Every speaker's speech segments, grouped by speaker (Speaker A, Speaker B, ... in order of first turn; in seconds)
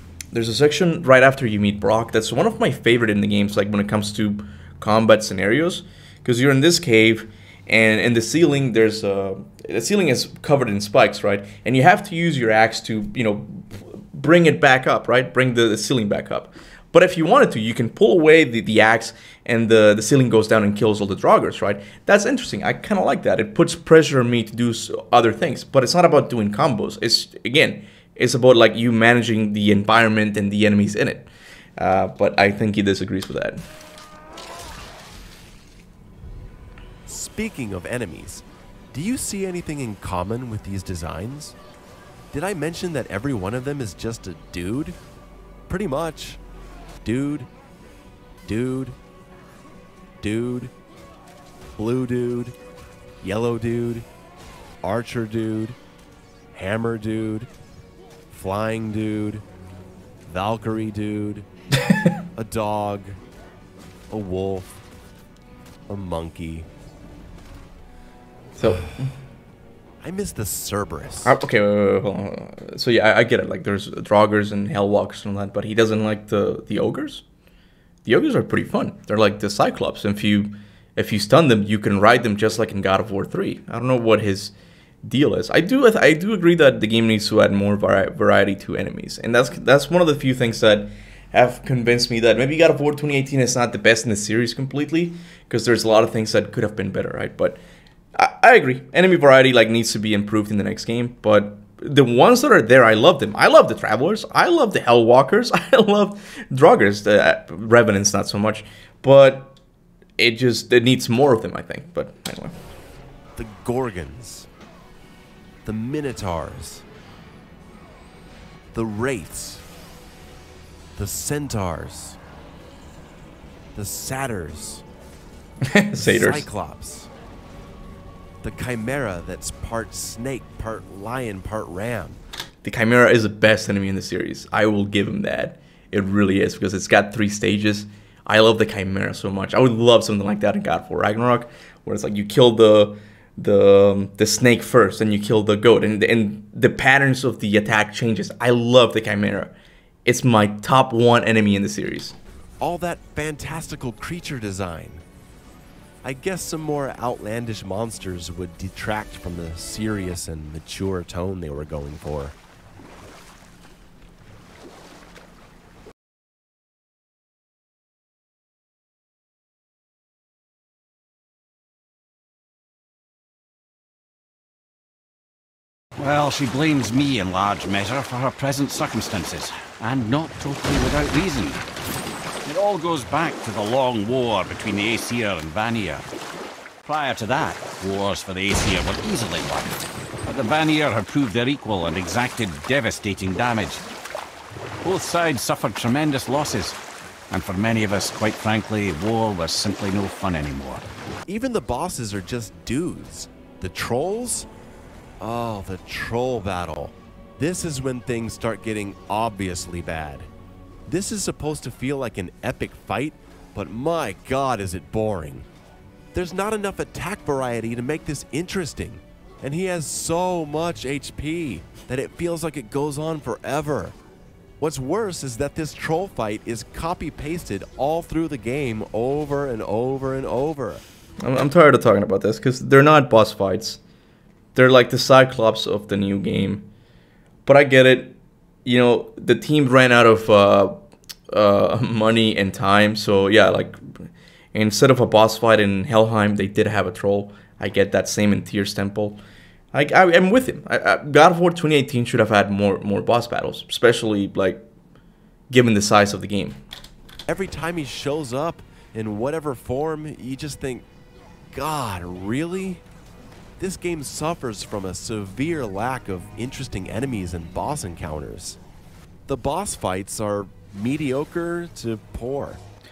Speaker A: 0.3-33.6, 61.9-62.1, 68.6-69.1, 71.2-77.2, 78.0-84.5, 85.0-97.6, 98.1-109.5, 110.2-112.6, 125.6-126.5, 132.6-149.5, 150.0-152.2, 231.2-233.8, 234.5-236.7, 237.4-240.8, 241.3-249.2, 249.7-254.7, 255.5-256.6
Speaker B: 37.0-41.6, 42.3-45.0, 45.7-46.4, 47.0-47.5, 48.4-49.0, 50.2-50.7, 51.8-52.5, 53.2-54.1, 54.8-55.8, 56.5-57.5, 58.3-59.4, 60.3-61.5, 62.3-63.2, 64.1-64.7, 65.9-66.7, 70.0-71.4, 113.3-114.5, 115.6-116.8, 118.7-119.6, 121.0-122.2, 123.7-124.8, 126.0-127.1, 128.4-132.2, 152.6-155.0, 156.0-162.3, 201.3-204.5, 205.2-210.3, 210.8-215.5, 216.1-224.0, 224.6-230.8, 257.3-260.9, 261.5-262.8, 263.6-268.6, 269.3-272.6
Speaker C: 176.0-181.6, 182.4-186.0, 186.8-193.8, 194.8-196.8, 197.3-200.8